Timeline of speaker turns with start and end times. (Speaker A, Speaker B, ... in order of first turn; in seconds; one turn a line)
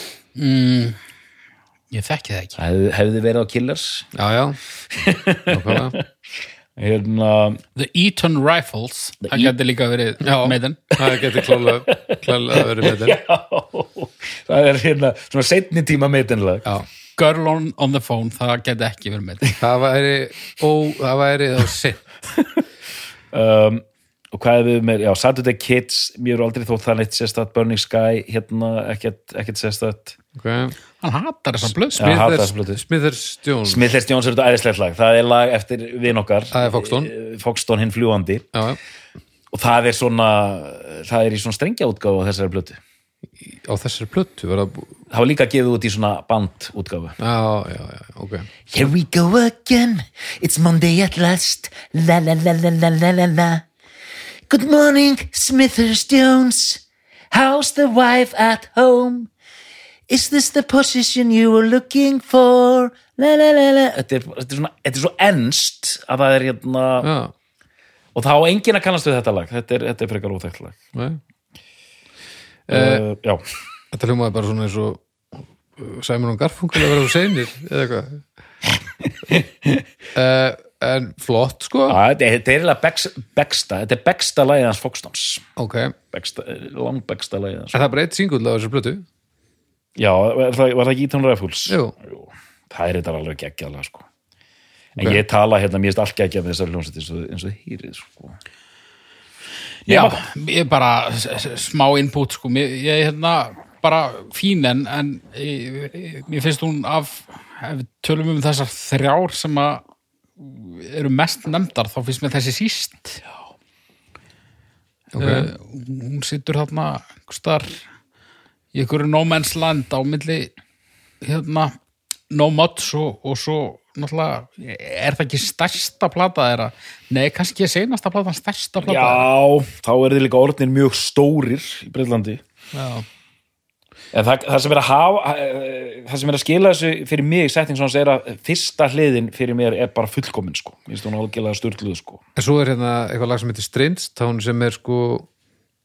Speaker A: 0.4-1.0
Speaker A: 1.9-2.5
Speaker B: 2.6-4.1
Speaker C: 4.1-4.6
Speaker B: 4.9-6.0
Speaker C: 5.5-6.0
Speaker B: 6.8-7.6
Speaker A: 7.8-10.9
Speaker B: 9.2-9.5
Speaker C: 10.2-13.2
Speaker B: 11.0-16.7
Speaker A: 17.2-19.6
Speaker C: 19.6-22.1
Speaker B: 23.3-30.2
Speaker C: 30.3-30.7
Speaker A: 31.0-32.0
Speaker C: 31.9-33.9
Speaker B: 31.9-32.8
Speaker B: 33.6-38.5
Speaker C: 36.5-37.1
Speaker C: 38.5-38.8
Speaker B: 39.5-42.8
Speaker C: 43.4-44.9
Speaker B: 45.1-47.2
Speaker C: 47.2-48.5
Speaker B: 48.7-53.6
Speaker B: 54.5-59.3
Speaker B: 60.1-67.1
Speaker C: 67.0-67.3
Speaker B: 68.1-70.8
Speaker C: 70.9-71.2
Speaker C: 72.7-73.0
Speaker B: 72.7-73.4
Speaker C: 73.9-75.0
Speaker C: 75.8-78.2
Speaker B: 79.4-79.7
Speaker C: 80.1-82.0
Speaker B: 81.9-85.5
Speaker C: 85.6-86.0
Speaker B: 86.1-87.8
Speaker C: 87.7-89.0
Speaker B: 90.0-94.0
Speaker C: 91.7-91.9
Speaker B: 95.0-98.4
Speaker B: 99.9-100.3
Speaker A: 99.9-109.8
Speaker A: 110.4-113.2
Speaker C: 115.1-115.5
Speaker A: 115.2-117.8
Speaker A: 118.7-120.5
Speaker A: 121.2-121.7
Speaker A: 122.3-129.3
Speaker B: 128.8-132.4
Speaker B: 134.1-142.2
Speaker C: 142.4-145.3